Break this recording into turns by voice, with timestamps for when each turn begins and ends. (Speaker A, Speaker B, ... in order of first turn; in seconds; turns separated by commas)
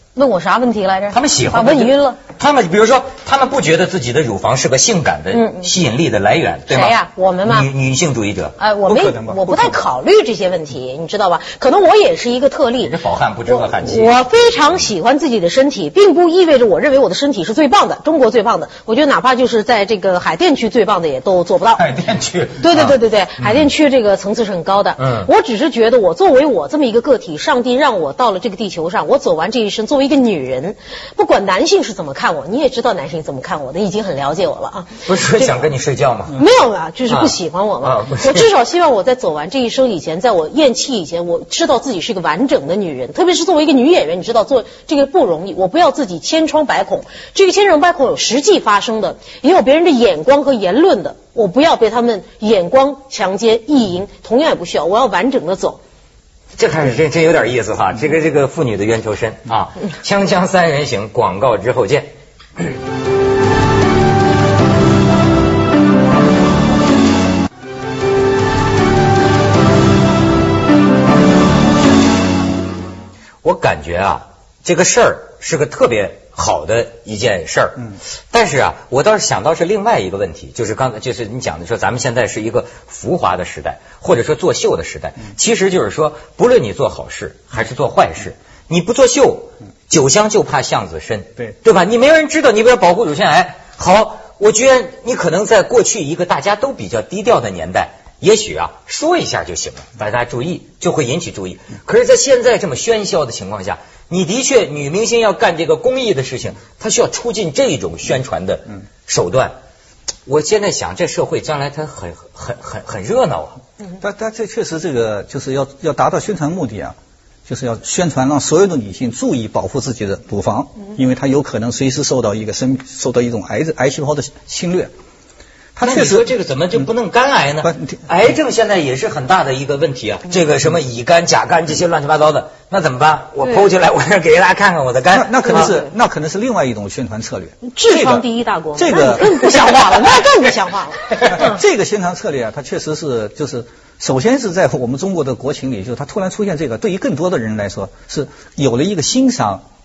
Speaker A: 0.1-2.2, Speaker B: 1.1-8.6, Speaker A: 5.3-5.7, Speaker A: 6.7-7.7, Speaker A: 8.6-12.9, Speaker C: 8.9-9.8, Speaker B: 12.8-14.1, Speaker A: 13.5-21.8, Speaker B: 21.8-23.0, Speaker A: 22.6-35.6, Speaker B: 25.0-25.3, Speaker B: 35.0-36.4, Speaker A: 36.3-55.8, Speaker B: 37.1-38.5, Speaker B: 56.5-62.1, Speaker B: 73.4-109.5, Speaker B: 110.2-113.6, Speaker C: 114.0-116.9, Speaker C: 117.5-124.9, Speaker C: 125.7-126.3, Speaker B: 125.8-135.7, Speaker C: 127.6-128.0, Speaker C: 135.1-139.7, Speaker A: 135.5-135.9, Speaker A: 137.6-141.6, Speaker C: 141.3-149.6